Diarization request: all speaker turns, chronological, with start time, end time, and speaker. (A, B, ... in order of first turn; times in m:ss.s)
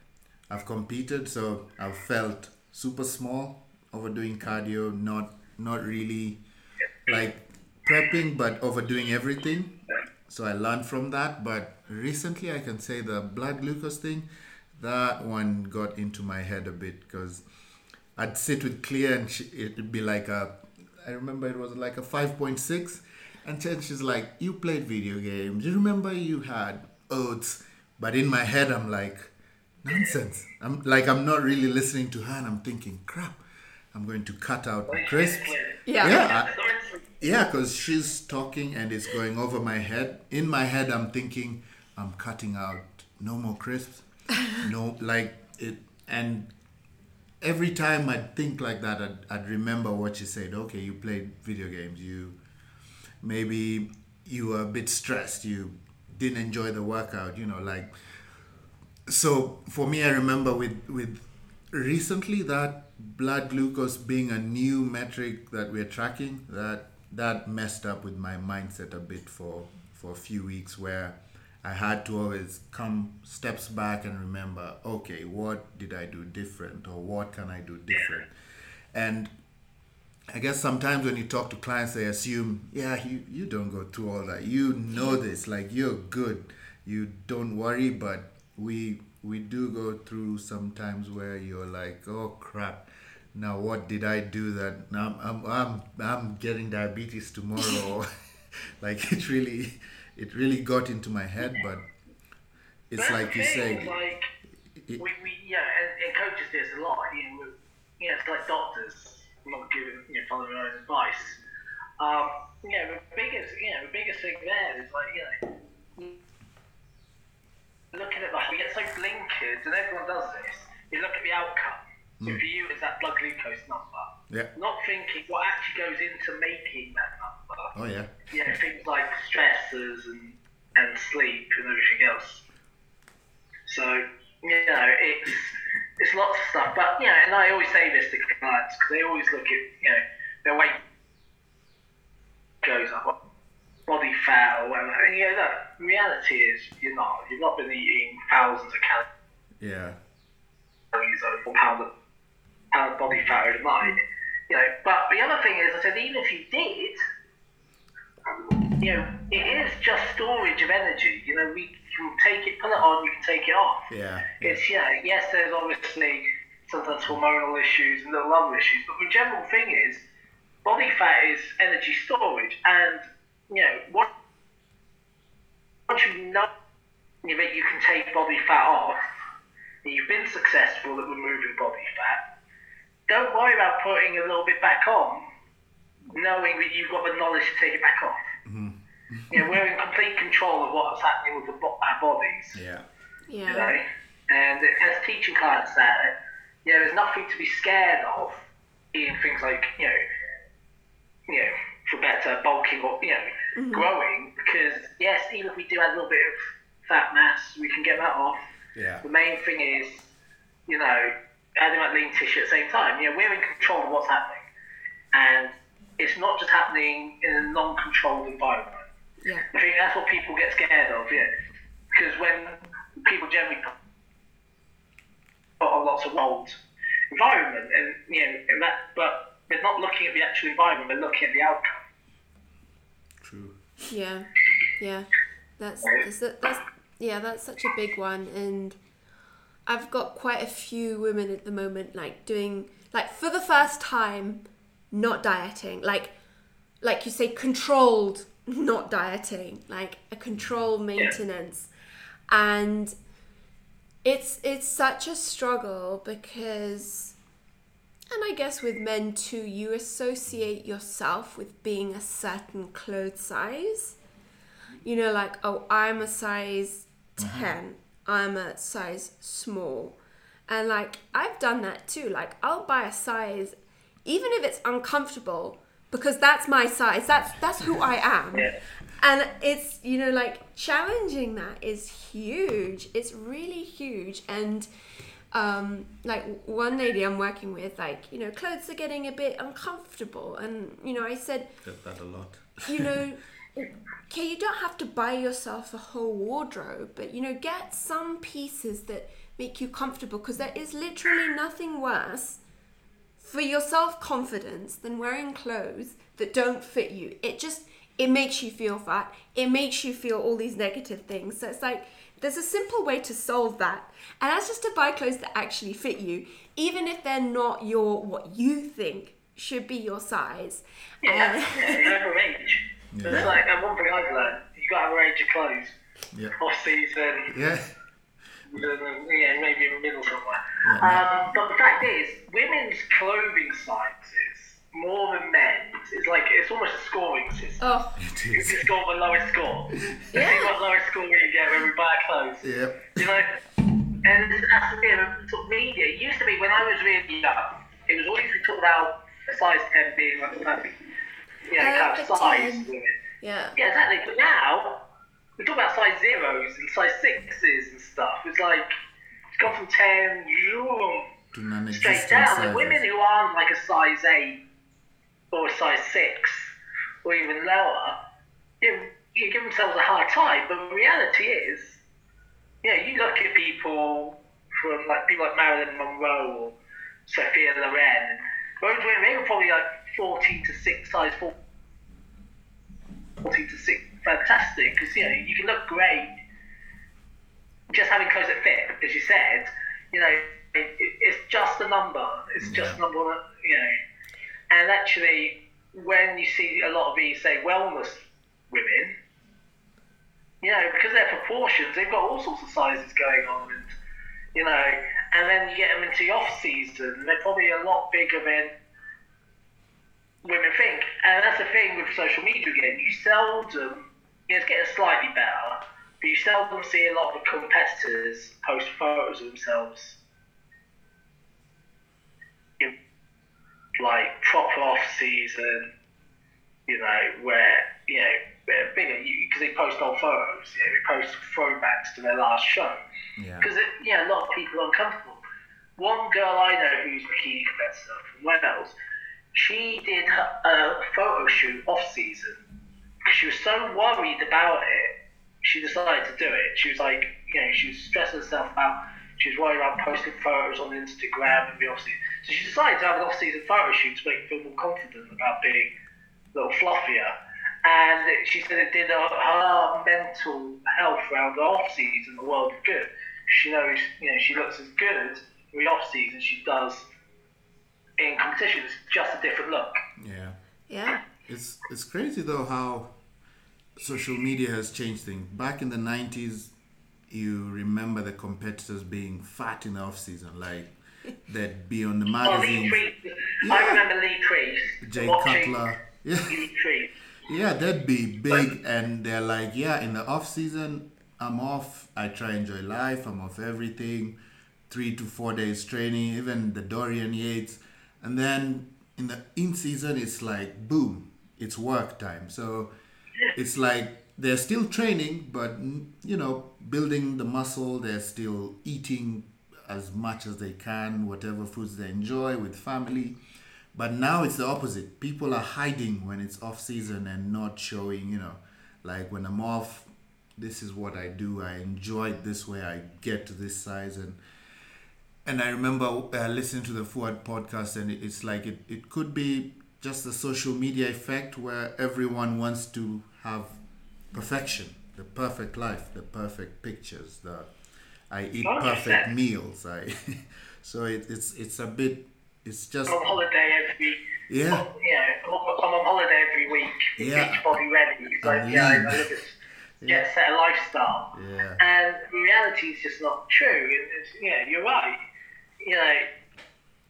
0:00.5-0:06.4 A
0:07.1-0:17.4 A
0:18.2-0:29.3 A
0:29.8-0:36.5 A
0:34.9-0:37.0 B
0:35.9-0:36.2 C
0:37.2-0:46.5 A
0:47.4-0:52.4 A
0:53.2-0:58.2 A
0:59.1-1:18.3 A
1:18.9-1:19.3 A
1:20.3-1:38.1 A
1:38.8-1:41.9 A
1:42.9-1:44.0 A
1:43.0-1:44.3 B
1:45.0-1:51.4 B
1:52.0-1:56.2 B
1:57.9-2:07.7 B
2:07.8-2:08.1 A
2:08.3-2:12.4 B
2:13.7-2:20.8 B
2:22.6-2:23.1 B
2:23.9-2:29.1 B
2:29.6-2:30.0 A
2:30.9-2:31.9 B
2:32.7-2:37.0 B
2:38.7-2:43.9 B
2:43.9-2:44.6 A
2:44.4-2:50.0 B
2:50.6-2:54.1 B
2:55.9-2:56.5 B
2:57.2-2:59.0 B
2:59.8-3:02.2 B
3:03.1-3:05.2 B
3:06.1-3:08.2 B
3:08.4-3:09.6 A
3:09.3-3:12.6 B
3:12.5-3:12.9 A
3:13.3-3:13.8 C
3:13.5-3:20.0 B
3:21.3-3:28.4 B
3:23.6-3:23.9 C
3:28.8-3:29.0 A
3:29.0-3:30.1 B
3:30.7-3:34.4 B
3:35.1-3:38.9 B
3:39.5-3:41.3 B
3:41.9-3:43.8 B
3:45.6-3:46.6 B
3:47.1-3:51.8 B
3:53.2-3:53.9 A
3:53.9-3:58.8 C
3:59.7-4:06.1 C
4:06.8-4:11.7 C
4:12.3-4:12.9 C
4:14.0-4:17.2 C
4:18.1-4:24.0 C
4:24.8-4:30.0 C
4:27.2-4:27.5 A
4:30.5-4:44.7 C
4:45.3-4:51.5 C
4:51.6-4:53.0 A
4:52.7-5:02.4 C
5:03.2-5:21.9 C
5:21.0-5:25.8 B
5:22.9-5:23.3 A
5:26.4-5:27.3 B
5:27.3-5:27.7 A
5:28.5-5:37.6 B
5:30.6-5:31.1 A
5:37.6-5:38.0 C
5:38.0-5:38.7 A
5:38.3-5:43.4 B
5:40.1-5:40.5 C
5:42.4-5:43.1 A
5:44.0-5:50.8 B
5:51.5-5:53.0 B
5:51.6-5:52.7 C
5:53.2-5:53.6 C
5:53.6-5:54.8 B
5:55.4-5:58.7 B
5:59.4-6:01.1 B
6:01.3-6:02.8 A
6:01.7-6:04.4 B
6:05.3-6:08.0 B
6:08.6-6:11.8 B
6:12.6-6:16.6 B
6:17.1-6:21.3 B
6:23.2-6:26.2 B
6:27.7-6:33.7 B
6:32.4-6:32.8 A
6:34.5-6:39.0 B
6:40.4-6:43.7 B
6:44.4-6:48.5 B
6:50.2-7:00.0 B
7:03.8-7:05.7 B
7:06.7-7:12.8 B
7:13.2-7:13.5 A
7:13.4-7:15.2 B
7:15.8-7:18.8 B
7:19.3-7:22.4 B
7:23.1-7:35.7 B
7:36.3-7:37.1 B
7:37.6-7:46.9 B
7:48.0-7:49.8 B
7:50.0-7:50.4 A
7:50.7-7:51.0 C
7:51.3-7:52.9 A
7:53.8-7:56.5 A
7:57.1-8:00.7 A
8:01.3-8:02.8 A
8:02.2-8:05.7 B
8:03.4-8:03.8 A
8:04.8-8:06.4 A
8:06.3-8:06.9 B
8:07.3-8:14.2 A
8:14.7-8:22.7 A
8:23.3-8:33.2 A
8:33.7-8:44.2 A
8:45.2-8:53.6 A
8:54.1-8:57.5 A
8:58.1-9:03.2 A
8:58.4-8:59.1 B
9:02.9-9:15.0 B
9:04.3-9:04.7 A
9:07.0-9:07.6 A
9:08.2-9:09.1 A
9:09.8-9:10.0 A
9:11.1-9:11.6 A
9:15.6-9:16.1 B